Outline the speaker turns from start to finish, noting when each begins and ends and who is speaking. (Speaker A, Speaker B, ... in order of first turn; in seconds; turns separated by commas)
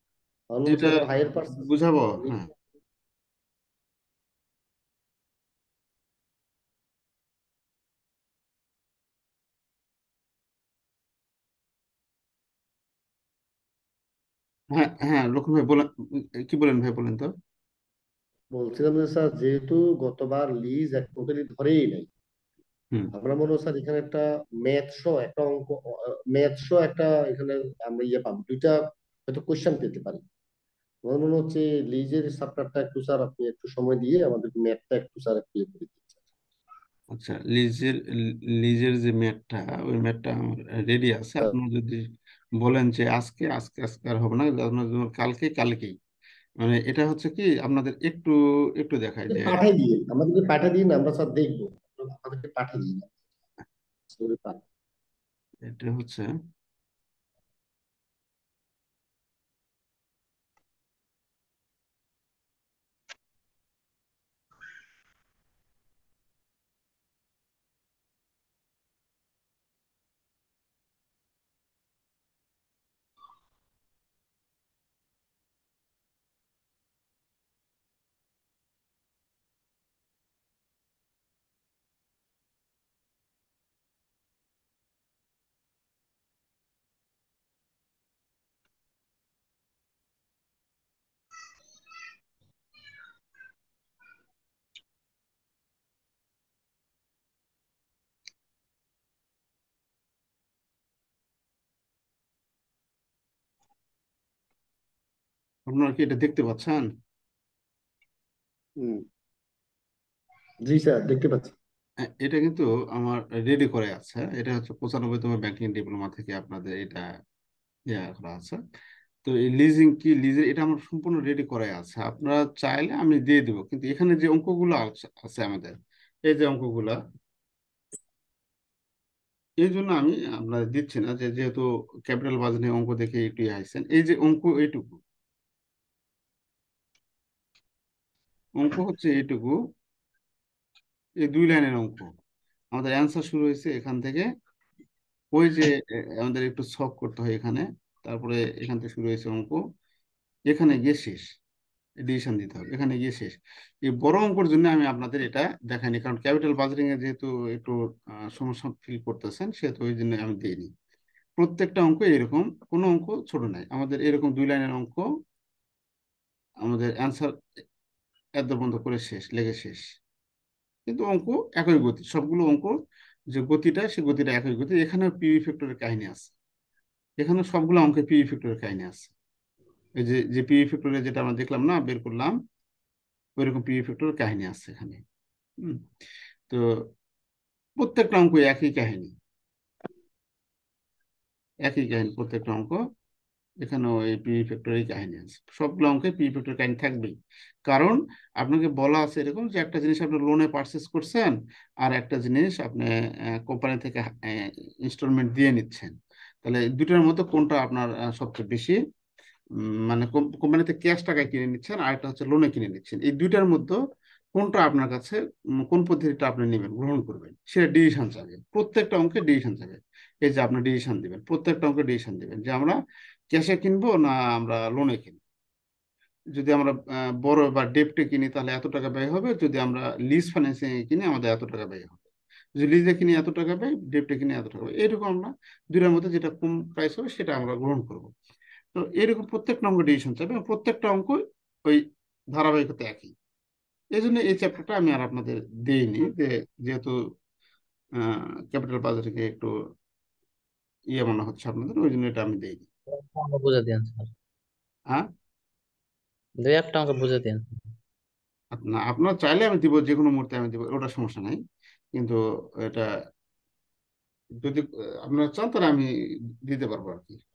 Speaker A: 0.5-2.4, Speaker B: 0.7-1.0, Speaker B: 1.5-2.5, Speaker B: 14.7-15.9, Speaker B: 16.5-17.3, Speaker A: 18.6-22.1, Speaker A: 23.1-30.2, Speaker A: 31.1-36.2, Speaker B: 37.1-38.0, Speaker B: 38.6-42.0, Speaker B: 42.6-46.0, Speaker B: 46.6-49.7, Speaker A: 49.3-53.2, Speaker A: 54.1-54.6, Speaker B: 55.7-56.2, Speaker B: 105.7-106.8, Speaker A: 110.7-111.5, Speaker B: 112.1-117.0, Speaker B: 117.9-118.6, Speaker B: 119.2-125.8, Speaker B: 126.3-127.0, Speaker B: 129.6-135.0, Speaker B: 138.6-139.6, Speaker B: 141.3-142.1, Speaker B: 142.8-144.3, Speaker B: 145.3-149.6, Speaker B: 150.5-151.2, Speaker B: 152.0-157.8, Speaker B: 158.3-160.7, Speaker B: 161.4-165.1, Speaker B: 166.6-167.3, Speaker B: 168.4-169.9, Speaker B: 170.9-172.7, Speaker B: 173.3-176.3, Speaker B: 177.2-179.1, Speaker B: 180.0-182.4, Speaker B: 183.4-185.0, Speaker B: 187.8-189.1, Speaker B: 191.7-192.8, Speaker B: 193.6-197.2, Speaker B: 197.7-202.9, Speaker B: 203.4-208.8, Speaker B: 209.9-213.8, Speaker B: 214.4-215.2, Speaker B: 215.7-222.8, Speaker B: 223.3-225.2, Speaker B: 226.4-232.1, Speaker B: 232.6-238.1, Speaker B: 238.7-241.8, Speaker B: 242.3-243.1, Speaker B: 244.0-246.9, Speaker B: 248.1-249.5, Speaker B: 251.0-252.7, Speaker C: 252.9-254.1, Speaker C: 256.4-257.4, Speaker B: 258.6-261.4, Speaker B: 262.0-262.9, Speaker B: 264.4-265.9, Speaker B: 266.5-267.2